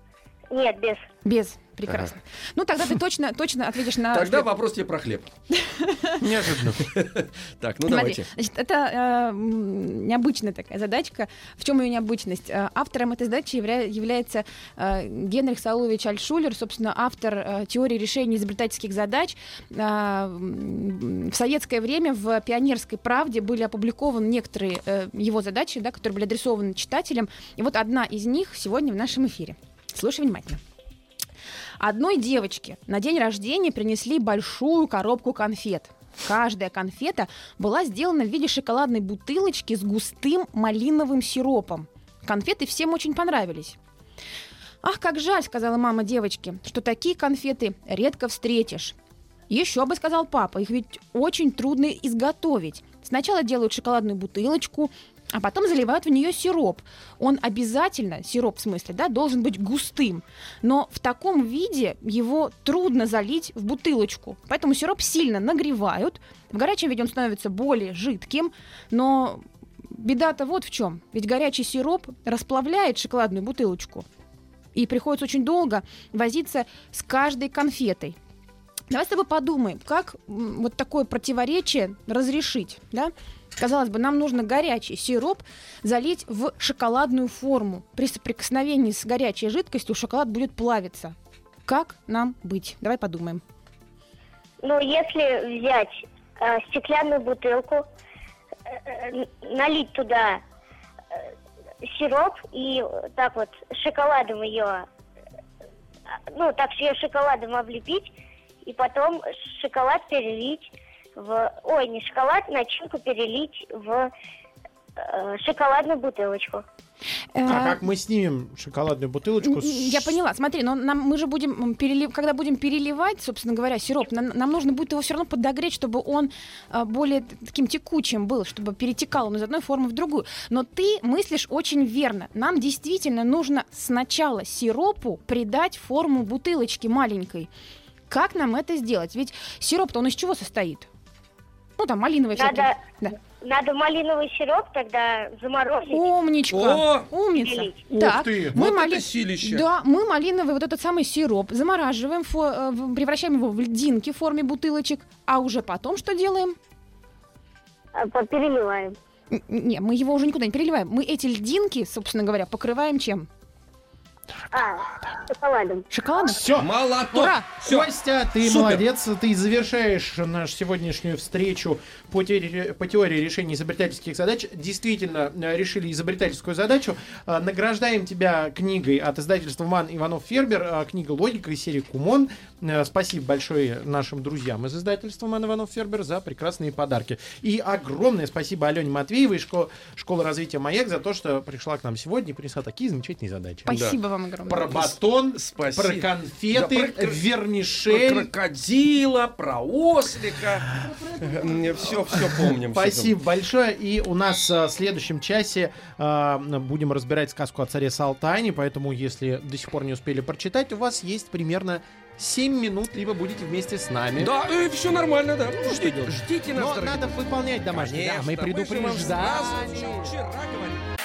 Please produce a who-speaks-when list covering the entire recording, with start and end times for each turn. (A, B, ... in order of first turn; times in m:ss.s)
0:00.5-0:01.1 A
0:01.2-0:04.5 B
0:01.9-0:02.1 C
0:04.1-0:05.3 C
0:05.6-0:06.2 B
0:06.2-0:06.9 D
0:06.8-0:08.3 C
0:07.9-0:30.6 B
0:31.8-0:43.8 B
0:44.8-0:49.0 B
0:49.5-1:14.1 B
1:14.8-1:18.2 B
1:18.9-1:31.2 B
1:31.7-1:33.4 B
1:34.6-1:37.9 A
1:38.7-1:40.4 A
1:41.8-1:44.9 A
1:46.3-1:48.1 A
1:48.6-1:54.1 A
1:55.0-1:56.6 A
1:57.4-1:57.8 B
1:57.5-2:00.2 D
1:59.4-2:17.5 B
2:18.1-2:20.9 B
2:21.8-2:23.2 B
2:22.4-2:22.8 A
2:23.4-2:26.1 A
2:25.9-2:36.6 B
2:26.5-2:27.1 C
2:27.3-2:27.8 A
2:27.9-2:28.6 D
2:28.0-2:29.7 C
2:38.0-2:39.0 A
2:39.3-2:43.3 B
2:44.5-2:45.9 A
2:45.9-2:46.4 B
2:46.3-2:46.7 D
2:46.6-2:48.9 C
2:47.1-2:47.5 B
2:47.6-3:13.8 D
3:13.7-3:14.8 B
3:13.7-3:14.0 C
3:14.5-3:18.3 D
3:14.7-3:17.2 C
3:17.9-3:23.2 C
3:20.8-3:21.9 B
3:22.1-3:34.3 D
3:34.2-3:40.9 C
3:35.5-3:40.1 D